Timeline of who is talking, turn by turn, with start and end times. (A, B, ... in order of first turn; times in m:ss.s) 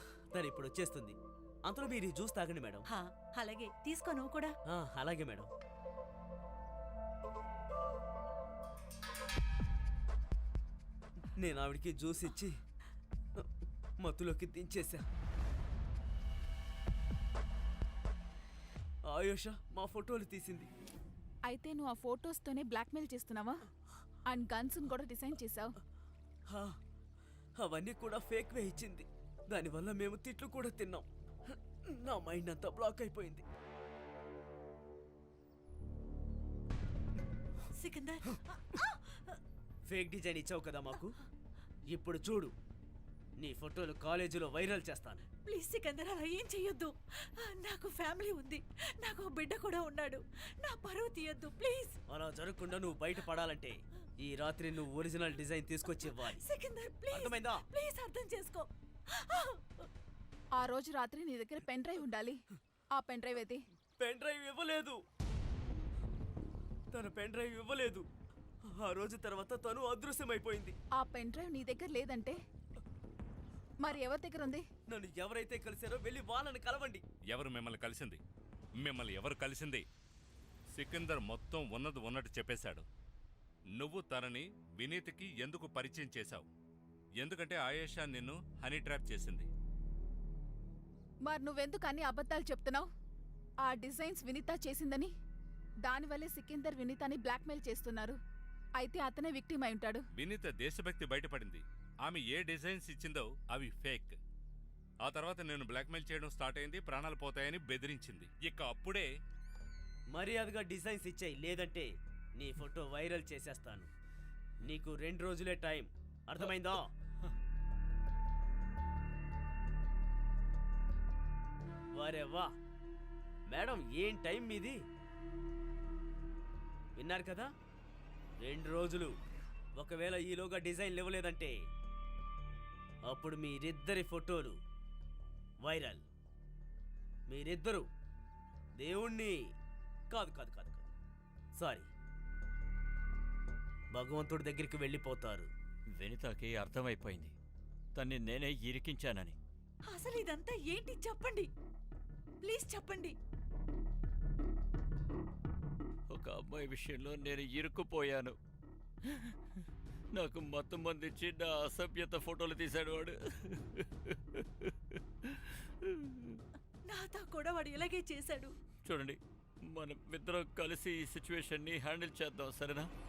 0:00.3-0:02.9 A
0:02.9-0:04.5 B
0:04.7-0:05.5 A
0:11.4-0:12.6 A
0:14.0-0:15.0 A
0:19.1-0:20.7 A
0:21.5-0:23.6 C
0:24.3-0:25.8 C
0:26.5-0:26.8 A
0:27.6-0:33.4 A
0:37.8-0:39.4 B
0:39.9-0:41.2 A
0:41.9-0:42.5 A
0:43.4-0:45.3 A
0:45.4-0:52.0 B
0:52.1-0:56.4 A
0:56.1-0:59.9 B
0:57.1-0:57.6 A
1:00.6-1:02.4 C
1:03.0-1:03.6 C
1:04.0-1:05.0 A
1:06.9-1:08.1 A
1:08.7-1:10.8 A
1:11.0-1:12.4 C
1:13.8-1:14.7 C
1:14.9-1:17.0 A
1:17.3-1:18.2 D
1:18.8-1:19.8 D
1:20.7-1:22.9 D
1:23.8-1:26.5 D
1:27.2-1:29.5 D
1:31.3-1:32.9 C
1:33.6-1:35.1 C
1:35.8-1:38.2 C
1:38.8-1:40.0 C
1:40.2-1:44.2 D
1:45.0-1:49.1 D
1:50.1-1:53.9 A
1:54.6-1:56.9 A
2:02.0-2:02.5 A
2:03.5-2:04.8 A
2:07.0-2:07.5 A
2:08.4-2:09.1 A
2:09.8-2:11.5 A
2:13.1-2:14.6 A
2:15.6-2:16.0 A
2:17.3-2:17.9 A
2:18.8-2:19.4 A
2:20.1-2:20.9 A
2:21.6-2:21.9 A
2:23.9-2:25.5 A
2:26.0-2:27.3 E
2:28.0-2:29.4 E
2:29.9-2:31.5 B
2:32.4-2:33.1 B
2:36.1-2:38.4 E
2:39.0-2:39.6 E
2:40.1-2:46.4 E
2:46.9-2:48.5 B
2:48.8-2:52.9 E